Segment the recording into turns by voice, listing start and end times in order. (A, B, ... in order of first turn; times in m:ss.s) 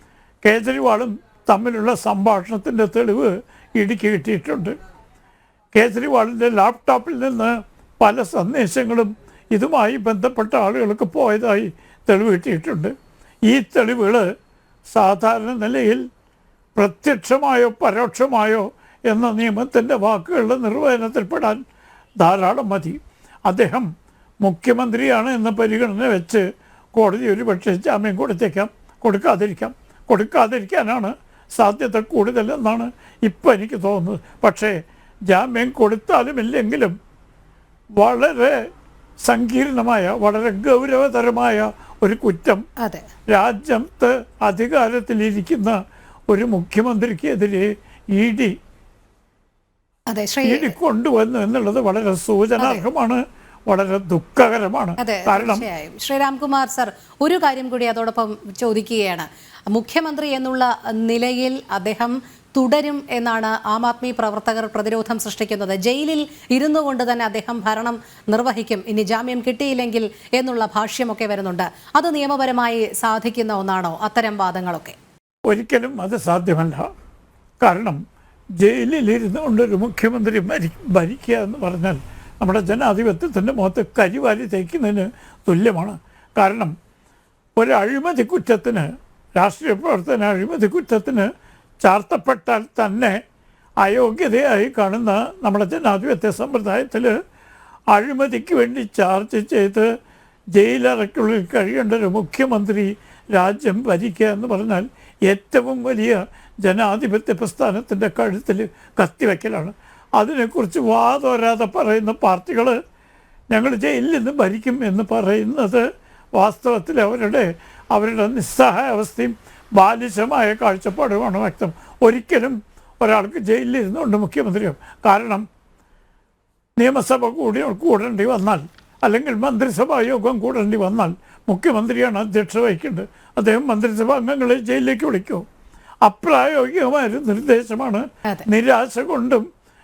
0:00.4-0:04.8 A
0:05.7-0:12.9 A
0:13.4-0:14.3 A
0:14.9-0:16.0 A
0:16.8-0:21.6 A
0:22.2-0:23.9 A
0:24.4-0:37.0 A
0:38.0-0:38.6 A
0:39.2-0:42.6 A
0:42.8-0:43.1 B
0:43.3-0:45.8 A
0:46.3-0:48.5 A
0:50.1-0:50.8 B
0:50.4-0:55.6 A
0:52.6-0:52.8 B
0:55.0-1:15.0 B
1:15.5-1:16.9 A
1:17.6-1:18.0 A
1:18.6-1:26.7 A
1:27.6-1:31.3 A
1:31.8-1:33.2 A
1:33.8-1:37.1 A
1:37.9-1:39.9 A
1:40.5-1:52.8 A
1:53.5-2:05.4 A
2:06.8-2:15.4 A
2:16.0-2:19.4 A